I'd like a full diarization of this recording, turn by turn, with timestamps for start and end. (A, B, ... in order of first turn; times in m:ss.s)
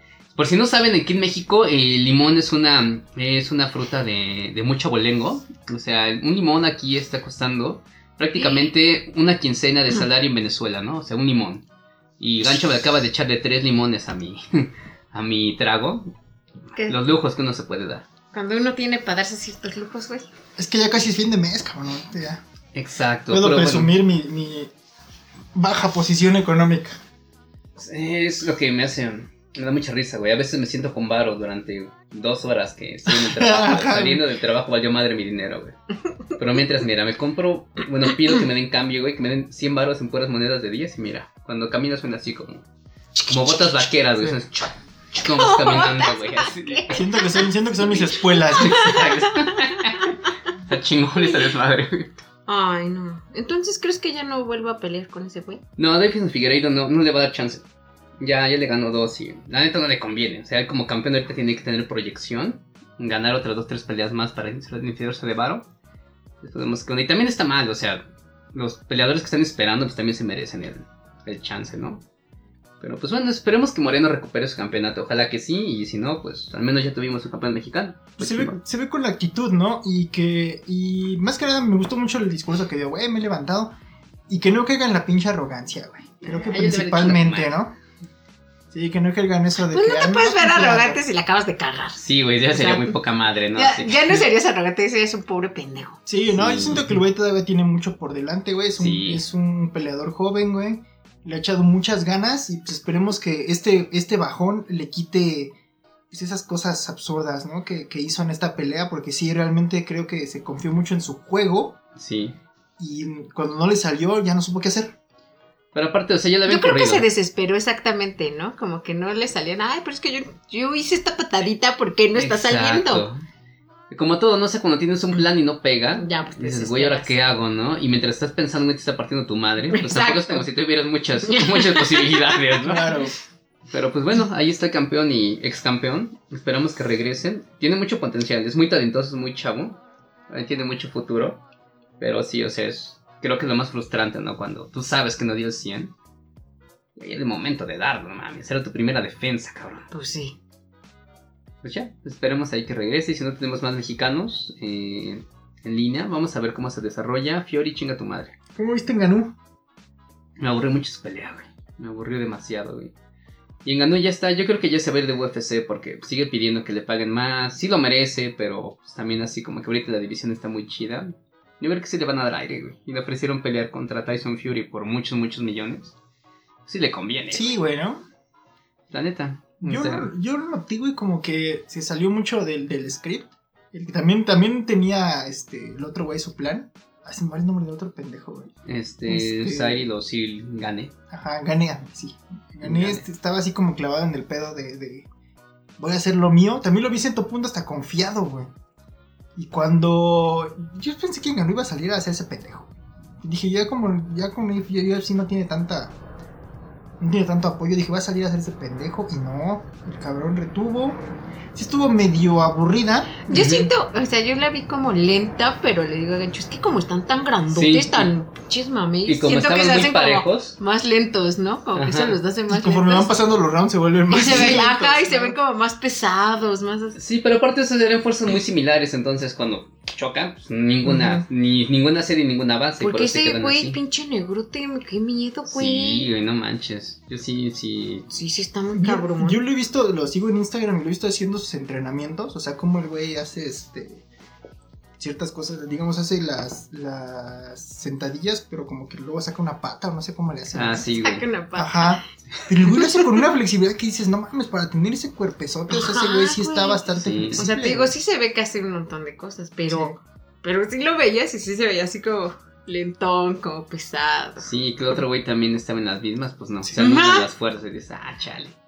0:00.3-0:11.6 A
0:08.4-0:08.7 B
0:12.2-0:16.1 A
0:16.7-0:17.0 B
0:16.9-0:18.0 A
0:18.3-0:20.3 B
0:20.6-0:22.4 C
0:22.7-0:23.9 A
0:23.3-0:24.7 C
0:25.5-0:27.0 C
0:27.8-0:35.7 A
0:33.1-0:34.2 C
0:36.3-0:42.7 A
0:43.3-0:47.0 A
0:45.2-0:47.5 B
0:46.9-0:49.0 C
0:47.8-0:52.2 A
0:48.5-0:49.9 B
0:52.5-0:55.6 B
0:55.8-0:57.6 A
0:58.2-1:05.6 A
1:06.4-1:12.0 A
1:12.8-1:18.6 A
1:18.2-1:23.7 C
1:24.3-1:27.7 C
1:26.2-1:27.6 A
1:28.7-1:31.0 C
1:29.7-1:33.0 B
1:32.0-1:34.2 A
1:33.5-1:36.0 B
1:36.0-1:45.5 C
1:36.3-1:37.0 A
1:38.8-1:39.2 A
1:46.1-1:51.8 C
1:52.0-1:52.4 A
1:52.8-1:55.0 C
1:55.7-1:57.1 A
1:56.5-2:03.0 B
2:02.1-2:03.2 A
2:03.9-2:12.9 A
2:06.0-2:07.1 B
2:09.7-2:10.4 B
2:11.2-2:12.4 B
2:12.6-2:13.1 C
2:13.7-2:21.4 A
2:22.0-2:25.9 A
2:27.0-2:29.9 A
2:29.9-2:30.4 B
2:31.6-2:38.3 A
2:38.5-2:39.3 C
2:40.4-2:42.9 A
2:43.6-2:55.9 A
2:56.6-2:57.6 A
2:57.3-2:58.0 C
2:58.9-3:00.1 A
2:59.6-3:08.5 C
3:08.6-3:10.9 A
3:09.0-3:09.9 C
3:11.1-3:15.0 C
3:12.6-3:13.0 A
3:15.8-3:18.5 C
3:19.4-3:22.7 C
3:23.2-3:26.0 C
3:27.0-3:31.0 C
3:31.5-3:33.2 C
3:33.3-3:43.2 B
3:33.3-3:33.7 A
3:37.5-3:38.1 A
3:39.0-3:40.6 A
3:41.7-3:42.2 A
3:42.5-3:45.4 C
3:44.1-3:47.0 B
3:47.0-3:53.8 A
3:52.8-3:56.1 B
3:55.5-3:58.1 A
3:58.1-3:59.4 B
3:58.8-4:04.0 C
4:05.0-4:10.8 C
4:10.5-4:11.2 A
4:10.9-4:12.0 B
4:11.6-4:17.9 C
4:12.8-4:13.0 B
4:15.7-4:16.8 B
4:16.9-4:17.4 A
4:17.4-4:24.5 B
4:19.7-4:19.9 C
4:24.4-4:28.6 A
4:26.7-4:27.2 B